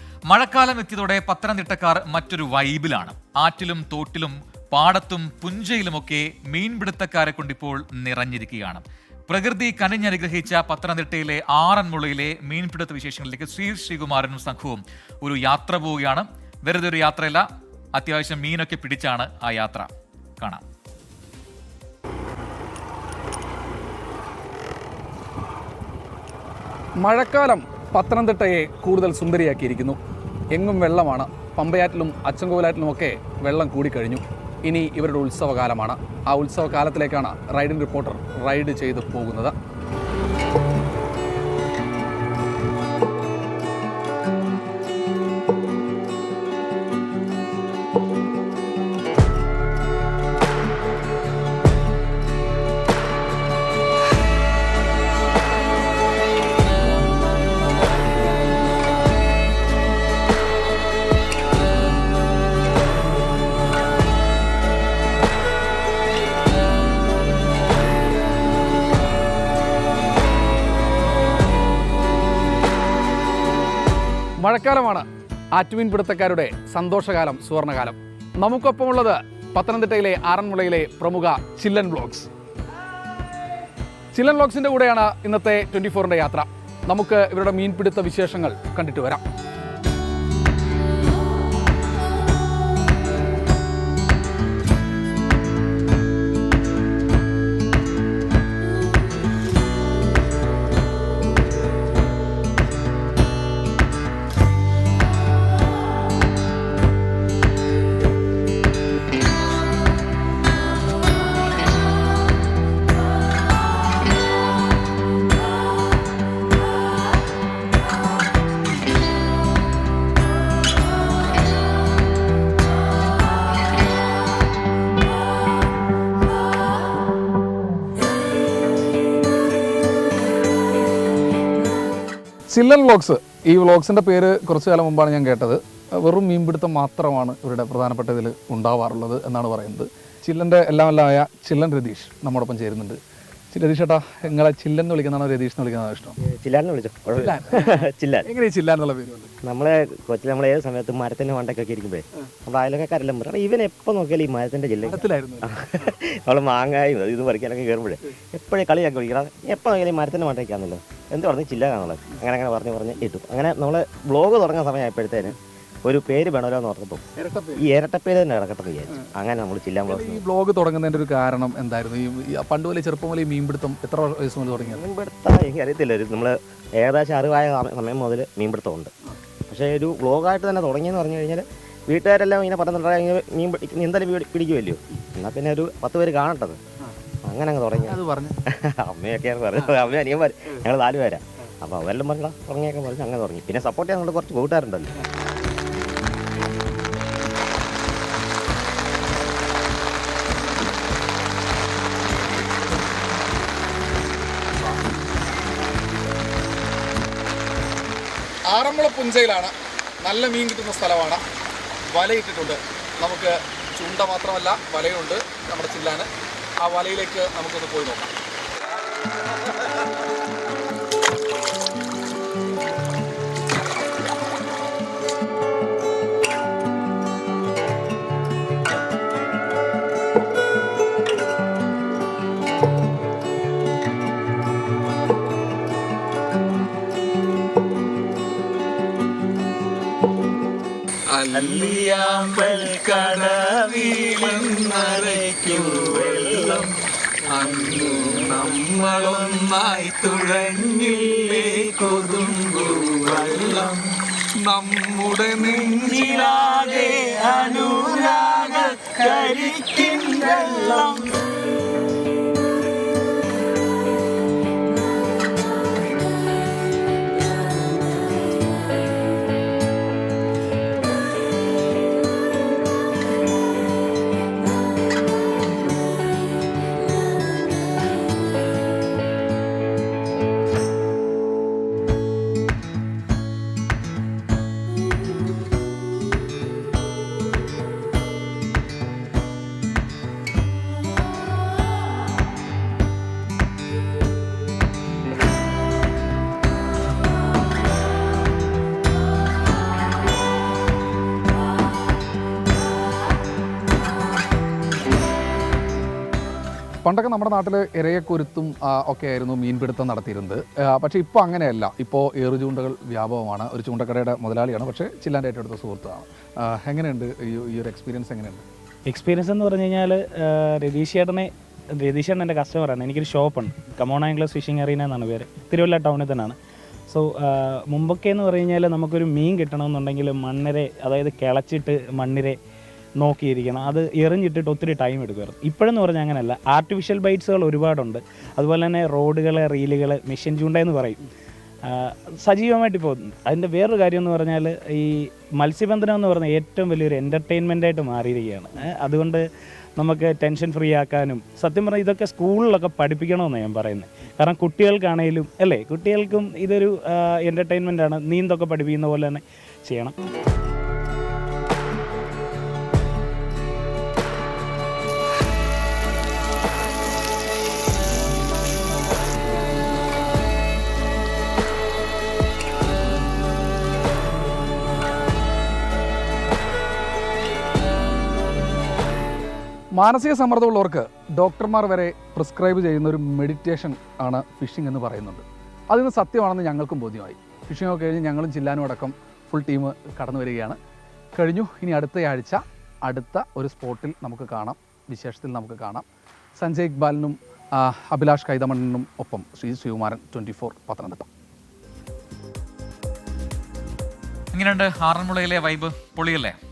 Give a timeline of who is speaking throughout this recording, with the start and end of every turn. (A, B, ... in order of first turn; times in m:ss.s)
0:00.3-0:20.6 A
0:27.0-0:30.0 B
0:30.5-0:39.6 B
1:14.4-1:22.3 B
1:24.1-1:29.2 B
2:12.5-2:23.0 B
2:23.5-2:26.2 B
2:26.2-2:28.3 C
2:27.2-2:29.3 B
2:29.4-2:47.0 C
2:34.8-2:35.6 B
2:47.5-2:50.2 C
2:49.9-2:54.9 B
2:54.6-2:58.9 C
2:59.5-3:06.6 C
3:07.2-3:14.9 C
3:07.9-3:08.4 B
3:28.5-3:31.2 B
3:31.9-3:36.1 B
3:36.6-3:38.1 B
4:01.1-4:06.7 D
4:07.3-4:13.8 D
4:08.0-4:09.0 B
4:14.5-4:16.0 B
4:14.8-4:21.0 D
5:06.8-5:18.4 B
5:18.9-5:26.4 E
5:26.9-5:32.4 E
5:33.0-5:41.0 E
5:41.7-5:49.2 E
5:49.8-6:00.0 E
6:19.8-6:30.6 B
6:31.2-6:35.8 B
6:36.4-6:41.1 B
6:44.3-6:46.4 A